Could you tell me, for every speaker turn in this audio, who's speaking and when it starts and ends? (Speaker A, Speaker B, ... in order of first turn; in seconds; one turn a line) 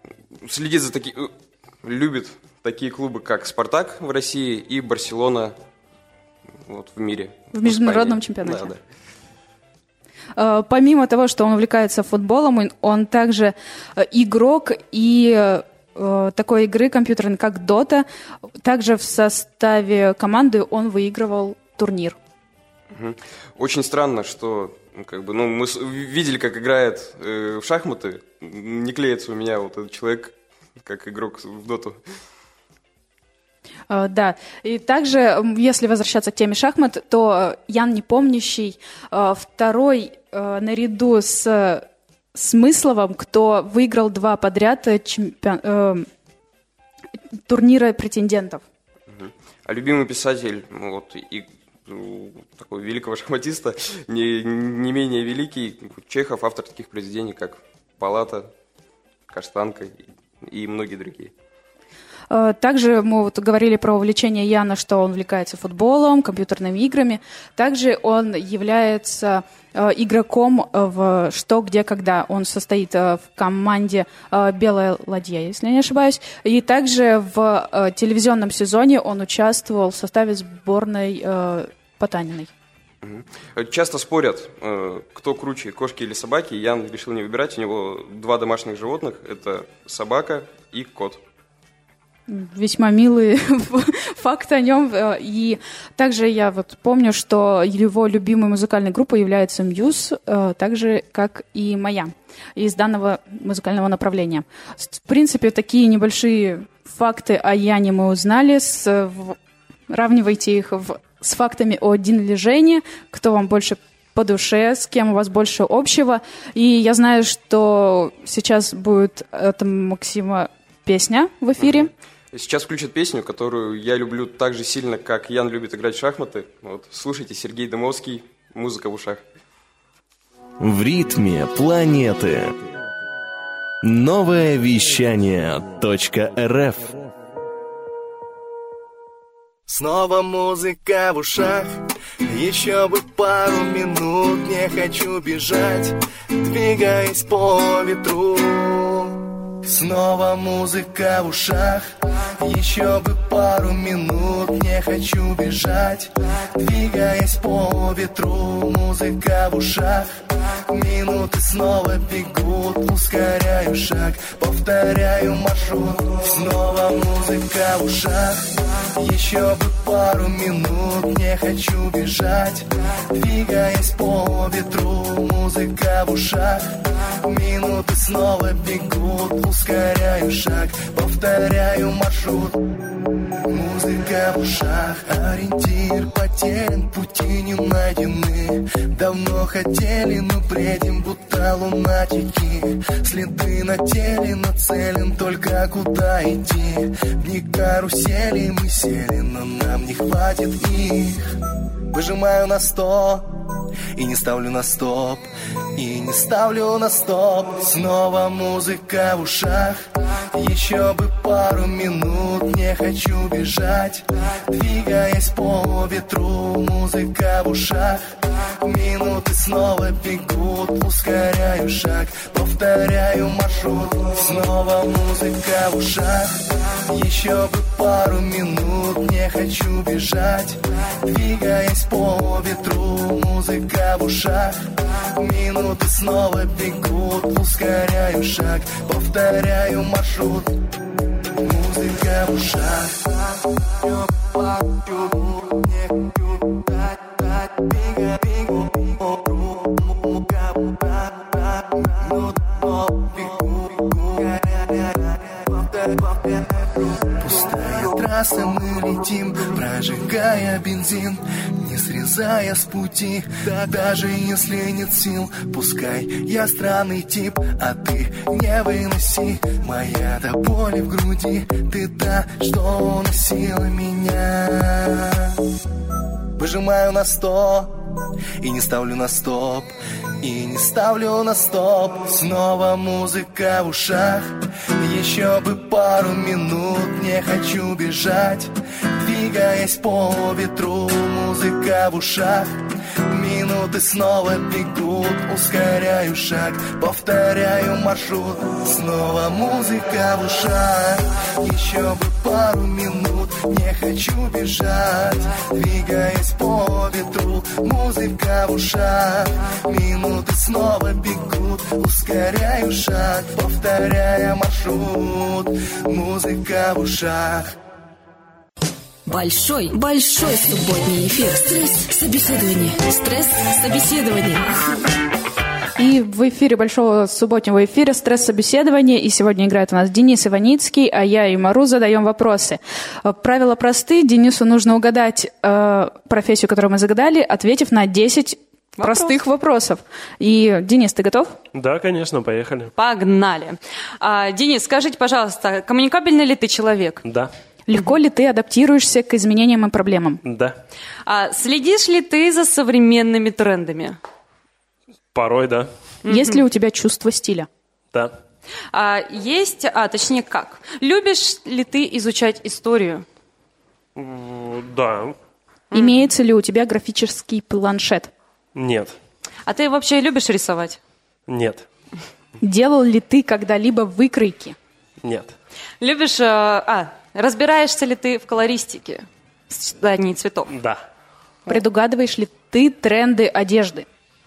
Speaker A: 0.4-1.3
Speaker A: 1.8-5.5
Speaker A: 6.7-8.8
Speaker B: 7.5-8.7
Speaker B: 10.3-18.1
Speaker B: 18.6-22.2
Speaker A: 22.9-32.0
Speaker B: 33.9-46.1
Speaker B: 47.5-48.6
Speaker A: 49.1-58.5
Speaker A: 59.3-61.3
Speaker B: 62.3-82.5
Speaker A: 83.0-91.2
Speaker B: 92.3-109.4
Speaker B: 109.9-121.9
Speaker A: 121.6-129.2
Speaker C: 130.6-132.6
Speaker C: 133.8-137.0
Speaker D: 139.7-182.7
Speaker D: 183.5-201.2
Speaker D: 201.9-203.3
Speaker D: 203.9-240.6
Speaker D: 241.4-243.2
Speaker D: 243.8-275.3
Speaker D: 276.4-277.8
Speaker D: 278.4-292.6
Speaker D: 293.1-317.5
Speaker E: 319.1-324.7
Speaker B: 325.8-341.3
Speaker F: 338.8-339.2
Speaker G: 341.5-342.7
Speaker F: 342.8-347.0
Speaker G: 347.0-347.3
Speaker B: 347.7-350.2
Speaker G: 350.2-350.5
Speaker F: 351.0-354.0
Speaker G: 355.1-355.7
Speaker F: 356.0-356.4
Speaker B: 356.1-357.5
Speaker F: 358.7-363.0
Speaker G: 363.9-365.1
Speaker F: 365.7-366.1
Speaker B: 365.7-368.1
Speaker G: 368.6-368.9
Speaker F: 369.4-370.8
Speaker G: 371.3-371.6
Speaker B: 372.4-374.6
Speaker G: 375.0-375.3
Speaker F: 375.8-380.5
Speaker G: 380.5-380.8
Speaker B: 381.5-383.9